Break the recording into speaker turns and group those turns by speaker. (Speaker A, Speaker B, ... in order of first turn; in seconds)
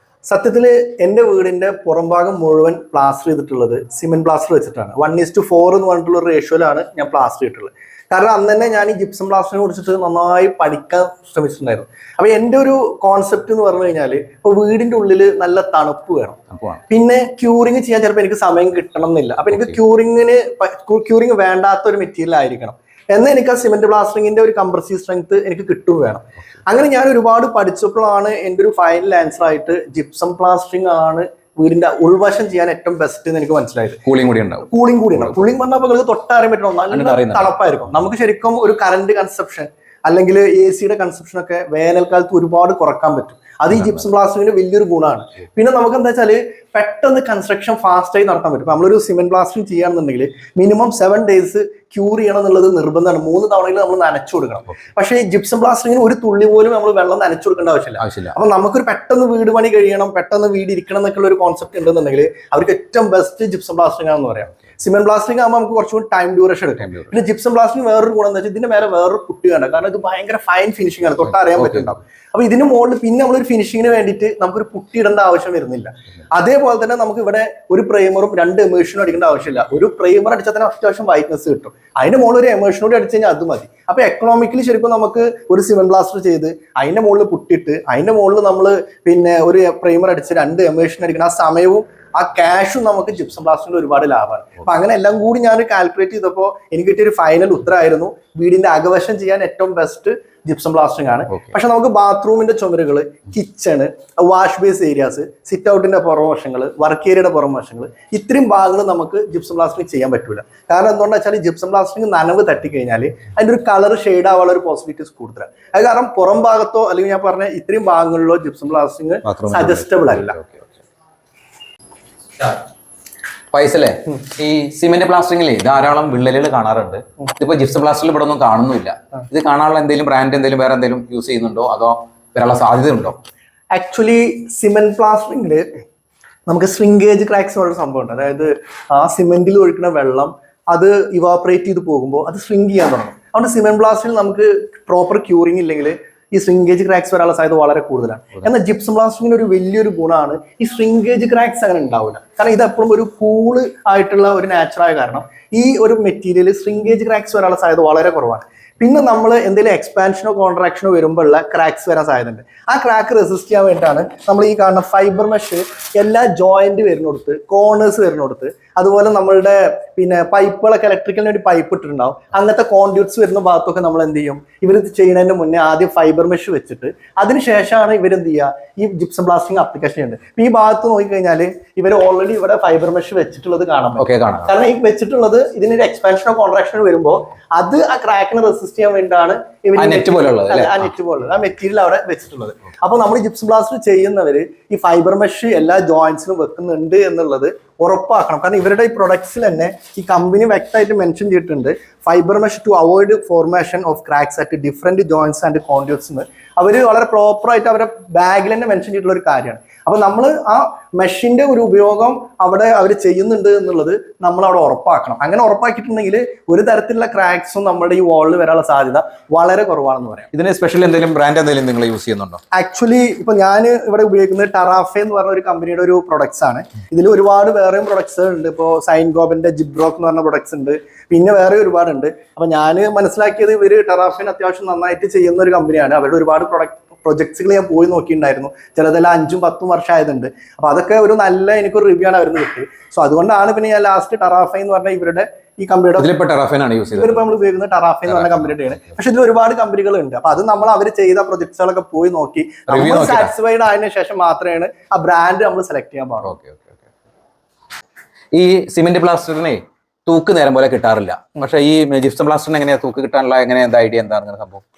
Speaker A: 0.3-34.0, 34.7-120.4, 133.7-135.7, 136.5-220.3, 222.5-246.1, 246.9-256.4
Speaker B: 16.5-16.8, 19.5-19.8, 34.1-35.5, 36.9-37.5, 43.7-44.0, 58.0-58.3, 66.9-67.1, 71.2-71.9, 119.2-120.7, 123.5-133.2, 184.0-184.5, 189.8-190.9, 220.3-222.4, 246.0-247.2, 248.1-248.6, 252.7-253.3, 256.2-256.8, 258.3-264.6